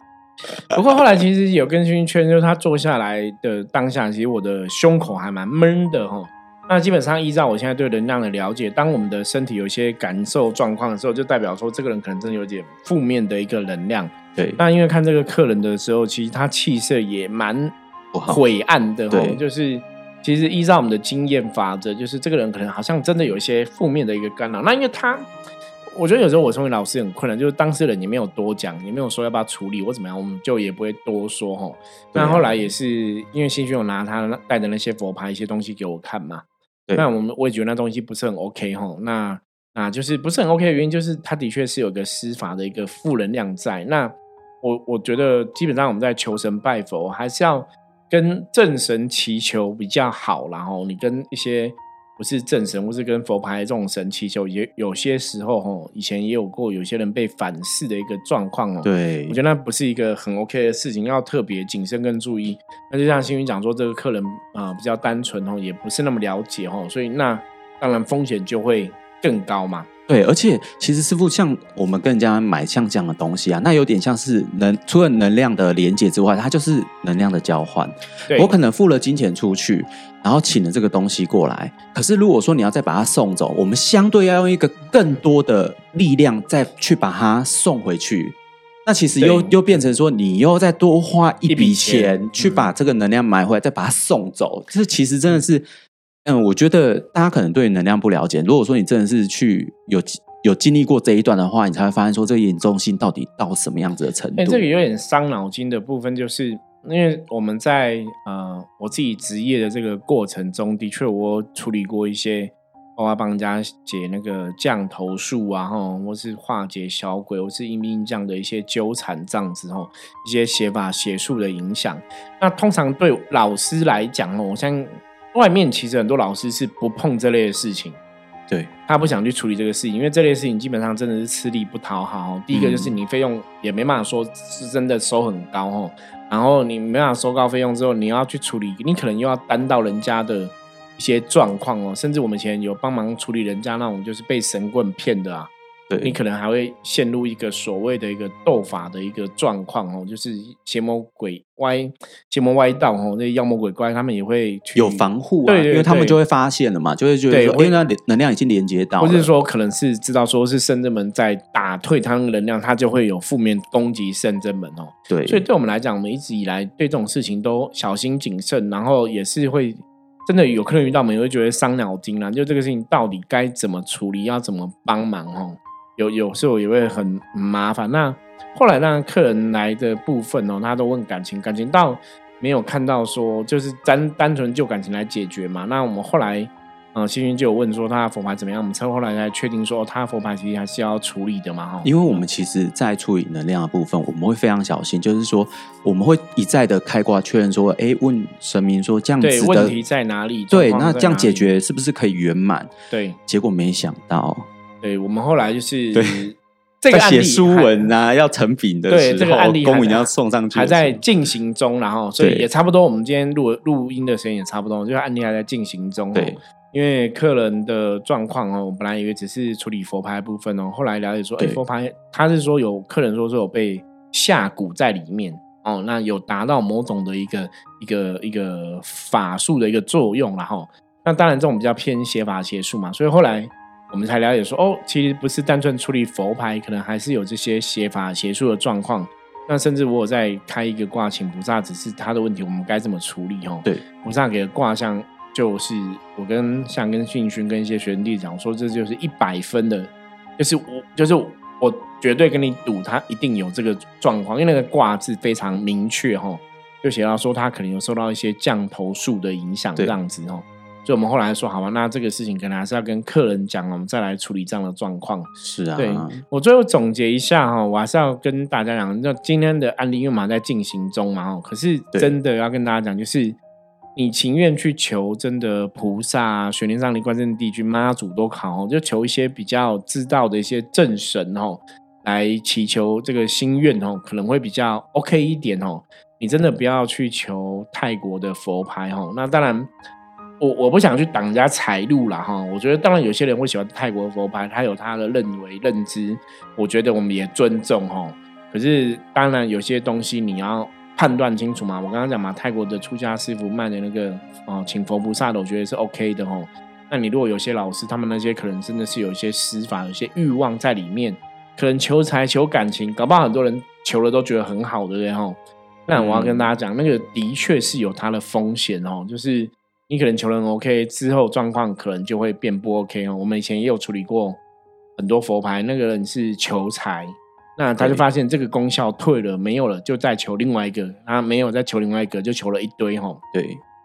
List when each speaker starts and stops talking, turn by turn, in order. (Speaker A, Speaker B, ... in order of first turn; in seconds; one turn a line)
Speaker A: 0.7-17.8
Speaker B: 14.4-14.6
Speaker B: 18.1-18.4
Speaker A: 18.3-25.3
Speaker B: 19.1-19.4
Speaker A: 25.9-36.5
Speaker B: 32.1-32.6
Speaker A: 37.0-69.9
Speaker B: 58.8-59.4
Speaker B: 70.1-95.7
Speaker A: 78.3-78.6
Speaker A: 89.2-89.5
Speaker A: 91.5-92.7
Speaker B: 96.2-104.6
Speaker A: 104.4-128.0
Speaker A: 128.9-156.2
Speaker B: 132.5-132.9
Speaker B: 145.9-146.2
Speaker B: 154.8-159.3
Speaker A: 157.3-157.8
Speaker A: 159.0-192.2
Speaker B: 165.1-165.5
Speaker B: 191.8-199.8
Speaker A: 199.2-201.5
Speaker B: 200.5-202.7
Speaker A: 202.9-203.2
Speaker B: 203.3-204.5
Speaker A: 204.8-207.9
Speaker B: 205.9-206.2
Speaker B: 206.9-211.0
Speaker A: 208.9-273.4
Speaker B: 212.2-212.5
Speaker B: 265.4-266.2
Speaker A: 274.0-289.7
Speaker A: 290.4-324.4
Speaker B: 315.9-316.5
Speaker A: 325.0-333.2
Speaker B: 327.8-328.0
Speaker B: 333.3-333.6